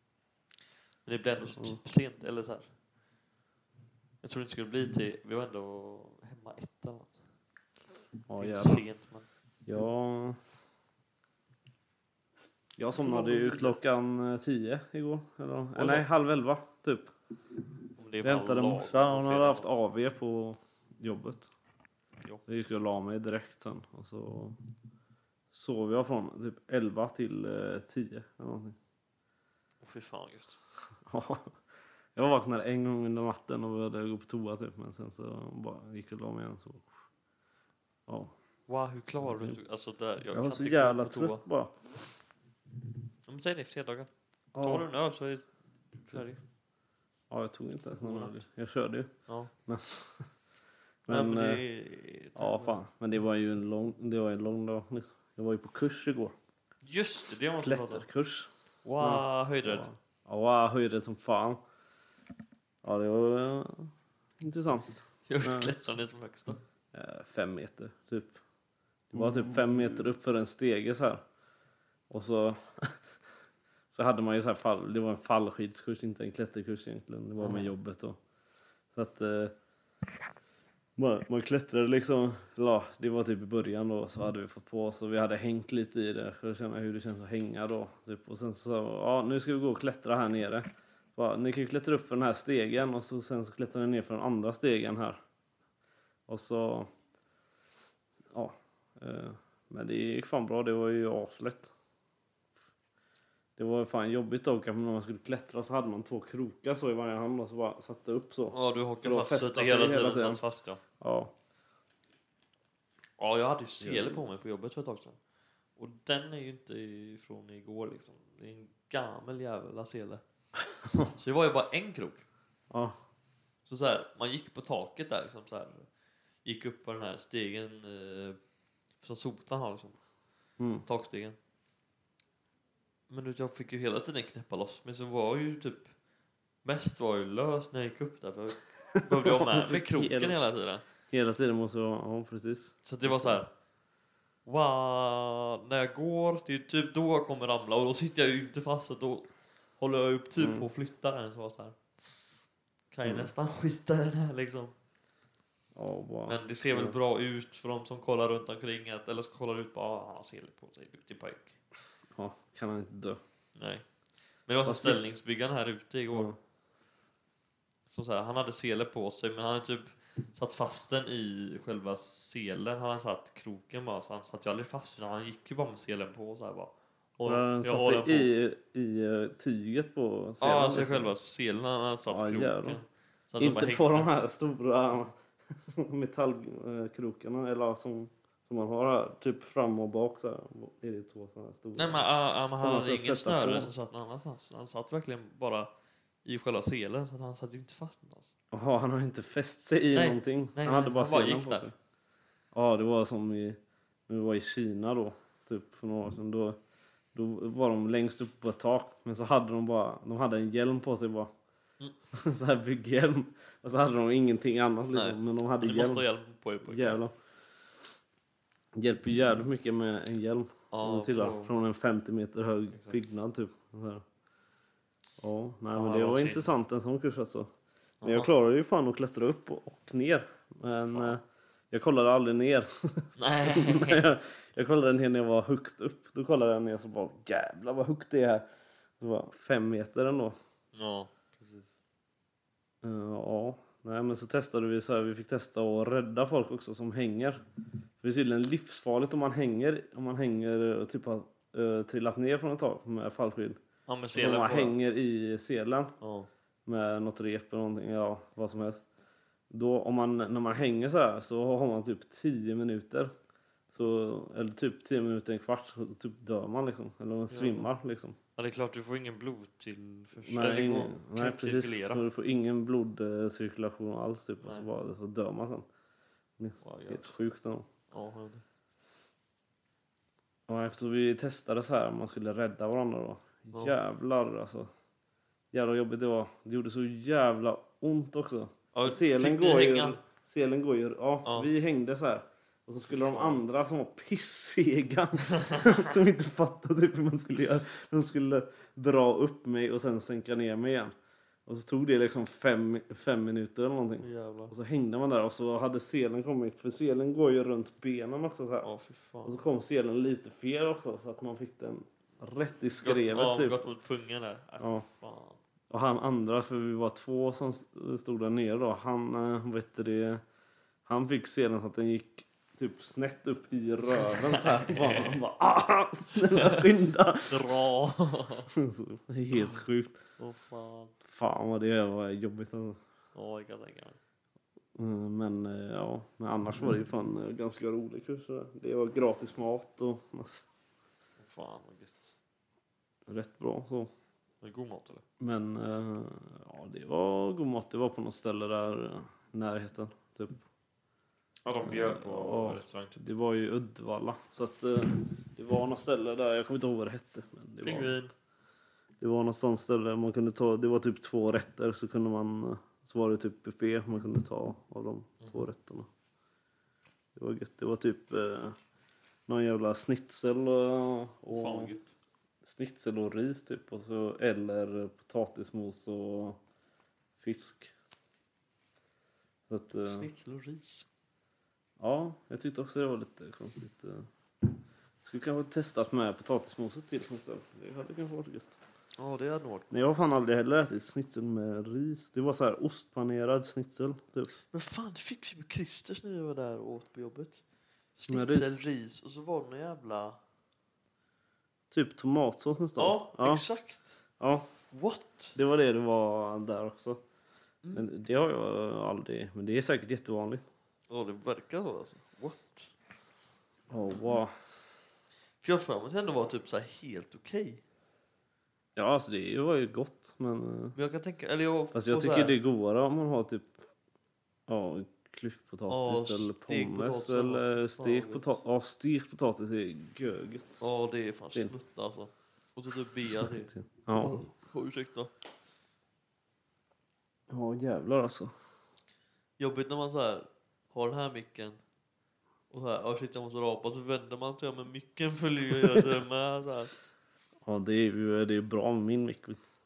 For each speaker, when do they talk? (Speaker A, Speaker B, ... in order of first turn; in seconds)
Speaker A: 1.1-2.8, 4.2-7.2, 8.4-9.3, 13.0-13.7, 15.8-16.1, 18.0-19.7, 29.8-30.6, 38.7-41.4, 43.3-46.4, 47.9-48.4, 49.3-49.5, 51.1-52.8, 56.8-58.1, 58.8-59.9, 65.3-66.6, 77.4-77.7, 108.5-110.8, 113.2-115.2, 115.8-120.2, 121.1-122.3, 123.7-125.9, 126.4-128.4, 129.0-130.0, 130.8-131.4, 133.1-135.9, 136.6-140.8, 142.8-143.5, 144.4-152.3, 152.9-154.7, 156.3-161.6, 163.6-163.9, 164.5-166.3, 167.9-178.3, 180.4-184.1, 191.8-195.7, 196.2-198.3, 199.9-201.7, 214.9-217.0, 220.7-221.5, 222.7-223.0, 225.7-226.5, 228.0-228.3, 230.9-231.2, 233.2-234.0, 240.7-241.7, 253.9-254.8, 256.0-256.3, 267.3-267.7, 268.4-272.1, 274.4-274.7, 276.6-277.2, 277.9-278.4, 288.7-290.0, 292.9-293.4, 304.0-304.5, 308.6-309.4, 312.8-315.4, 323.9-325.2, 326.3-326.6, 327.3-328.5, 330.2-330.9, 333.1-334.0, 341.2-342.1, 344.4-345.0, 351.4-353.0, 357.6-358.1, 371.3-371.9, 379.8-380.9, 389.0-389.8, 394.5-397.4, 398.0-400.2, 402.8-404.0, 404.7-405.4, 410.9-412.7, 415.4-417.6, 420.8-422.4, 425.7-428.4, 430.6-435.1, 439.4-441.6, 442.5-446.8
Speaker B: 8.3-8.8, 9.7-10.4, 12.8-17.1, 18.2-21.5, 22.5-24.6, 25.5-28.8, 31.1-31.5, 32.1-37.0, 38.1-38.3, 39.2-39.6, 40.3-41.8, 44.5-44.9, 47.3-50.3, 51.1-51.6, 52.4-56.4, 57.6-61.6, 62.8-65.9, 66.9-68.4, 69.1-71.2, 72.1-73.0, 73.9-78.2, 78.9-79.5, 81.0-95.2, 96.3-96.9, 98.3-101.7, 103.6-110.4, 111.0-111.3, 113.8-114.2, 120.8-121.1, 122.7-123.0, 130.6-130.8, 139.2-140.4, 141.1-143.4, 150.4-150.7, 153.1-153.3, 155.8-157.0, 162.1-163.2, 164.6-165.1, 166.1-166.4, 177.2-181.1, 182.1-182.8, 183.4-193.7, 198.5-201.7, 202.5-206.6, 207.1-211.3, 212.1-216.1, 216.7-217.1, 218.8-224.0, 225.2-227.5, 228.0-238.4, 239.0-240.4, 242.8-247.4, 248.0-253.6, 254.1-255.9, 256.7-258.9, 259.5-263.1, 263.7-268.2, 270.3-275.6, 276.4-277.7, 280.5-284.7, 285.5-300.9, 301.5-308.7, 309.2-313.6, 314.6-314.9, 315.7-320.2, 320.9-327.5, 328.5-330.0, 331.0-332.8, 334.8-340.5, 343.1-343.9, 345.2-350.4, 351.6-358.0, 359.0-365.9, 367.2-368.6, 369.3-371.7, 372.4-376.4, 377.2-377.7, 379.5-380.1, 381.8-388.6, 389.7-394.3, 398.1-398.6, 401.7-403.5, 404.2-404.5, 405.4-407.0, 407.7-410.4, 413.7-414.4, 418.8-420.8, 421.7-423.6, 424.5-430.6, 433.0-434.2, 437.3-438.3, 447.4-449.4